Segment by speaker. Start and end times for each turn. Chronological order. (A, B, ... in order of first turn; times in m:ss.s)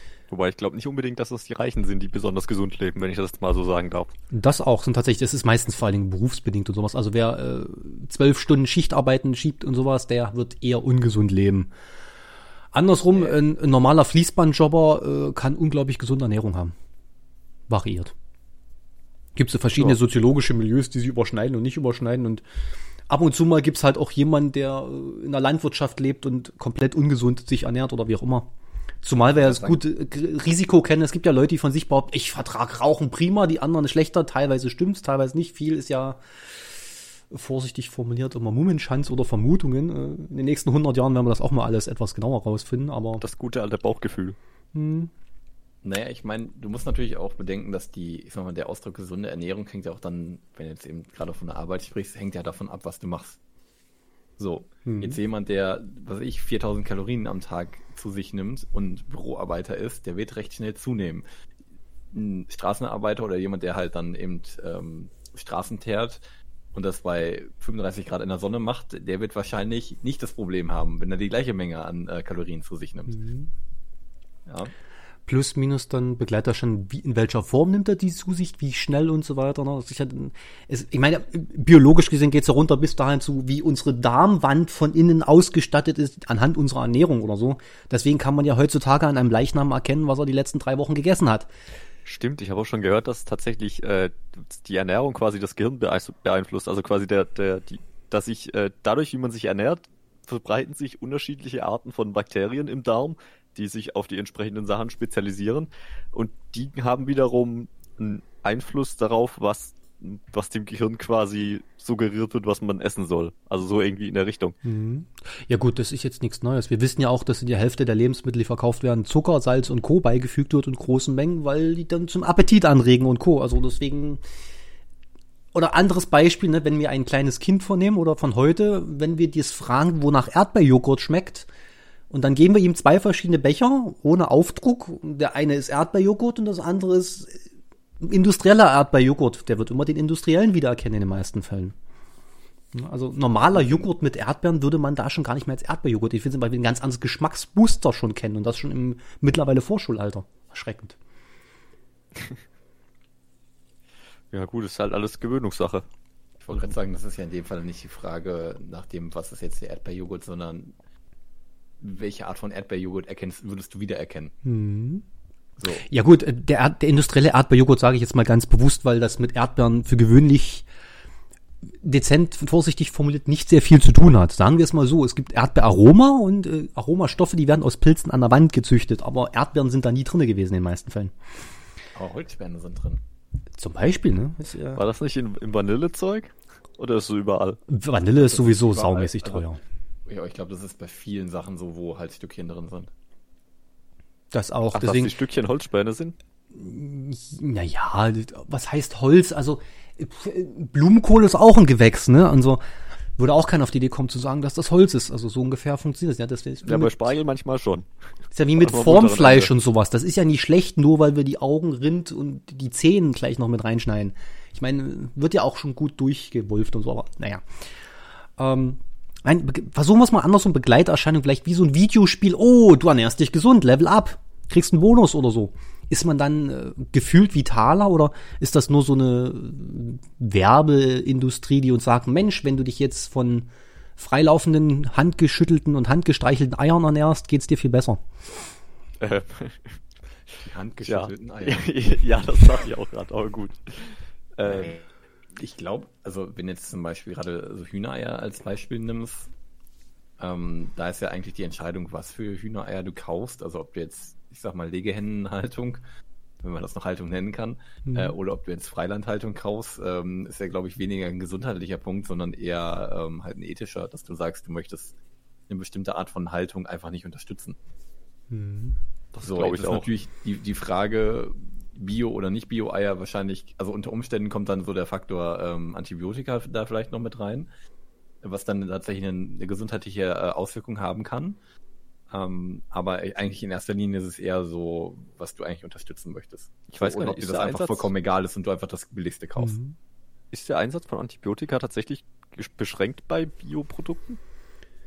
0:00.3-0:04.1 A
0:04.3-0:11.7 B
0:12.7-0:16.7 B
0:17.7-0:18.1 B
0:19.4-0:22.4 B
0:23.1-0:28.5 B
0:29.0-0:43.2 B
0:29.4-0:29.8 C
0:43.2-0:44.4 A
0:44.7-0:45.1 B
0:45.8-0:53.4 C
0:54.4-1:01.2 C
0:54.8-0:55.2 B
1:02.1-1:06.2 C
1:06.7-1:13.2 C
1:13.1-1:13.5 B
1:14.5-1:14.7 C
1:15.3-1:31.5 B
1:32.0-1:54.5 A
1:54.6-2:04.2 B
2:05.5-2:11.5 B
2:12.1-2:17.5 B
2:18.0-2:21.7 B
2:22.7-2:31.0 B
2:34.3-2:35.8 A
2:36.4-2:40.7 C
2:41.8-2:44.3 C
2:44.4-2:45.0 B
2:45.6-2:45.8 C
2:45.8-2:50.7 B
2:51.8-3:01.1 B
3:01.9-3:03.0 C
3:03.6-3:04.8 B
3:04.8-3:07.6 A
3:07.7-3:09.6 B
3:08.2-3:09.4 C
3:10.1-3:12.9 C
3:14.3-3:15.1 B
3:14.7-3:16.2 A
3:16.5-3:22.6 B
3:23.2-3:27.1 B
3:26.6-3:27.9 A
3:28.3-3:37.4 B
3:28.6-3:29.5 A
3:38.4-3:58.0 B
3:59.0-3:59.8 A
4:00.4-4:01.7 C
4:00.8-4:04.7 A
4:04.4-4:04.8 C
4:05.4-4:09.3 C
4:10.2-4:15.8 C
4:16.4-4:24.9 C
4:17.8-4:18.1 B
4:25.5-4:27.6 C
4:28.3-4:28.8 B
4:29.1-4:29.9 A
4:29.2-4:37.5 C
4:38.2-4:41.4 C
4:42.1-4:49.6 C
4:46.7-4:47.9 A
4:49.4-4:49.7 B
4:50.3-4:54.2 A